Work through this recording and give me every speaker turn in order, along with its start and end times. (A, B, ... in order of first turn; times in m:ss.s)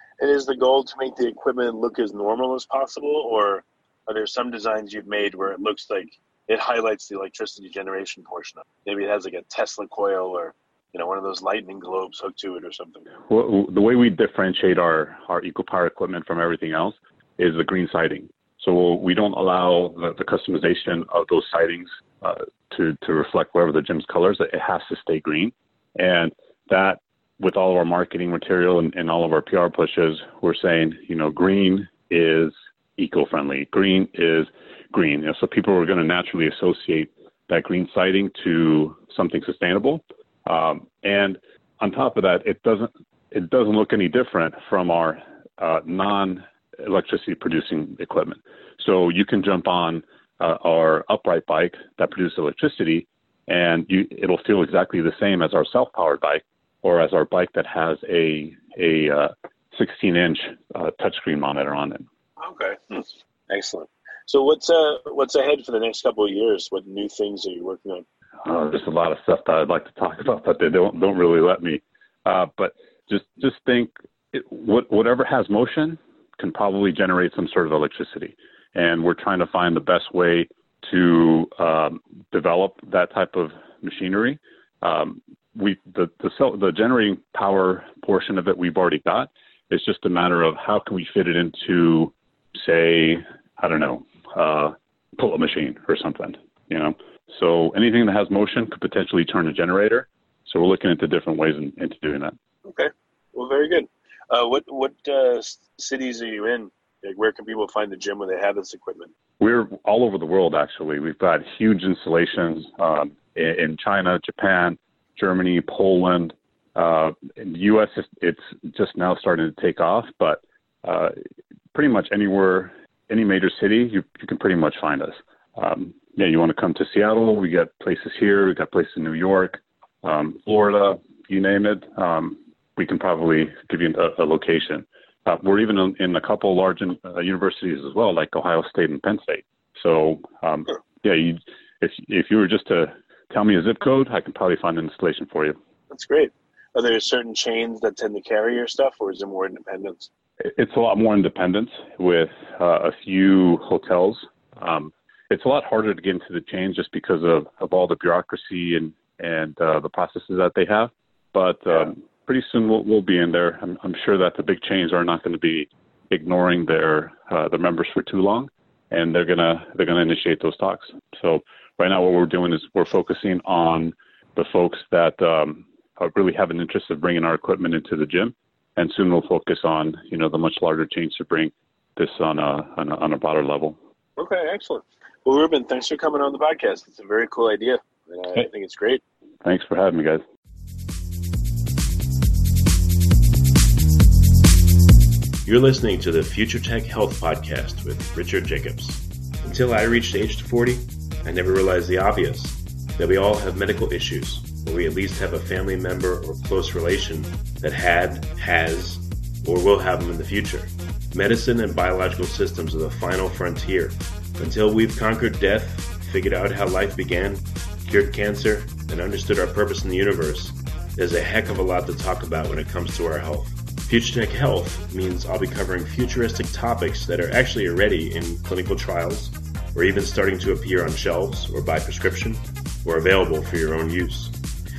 0:00.2-0:13.1 A
0:13.3-1:02.0 B
1:02.4-1:08.0 A
1:08.4-1:42.3 B
1:42.7-1:49.1 A
1:49.4-2:01.1 B
2:01.7-2:25.6 B
2:25.9-2:30.1 A
2:30.4-3:03.8 B
3:04.2-3:09.0 A
3:09.4-3:10.2 B
3:15.4-3:54.4 C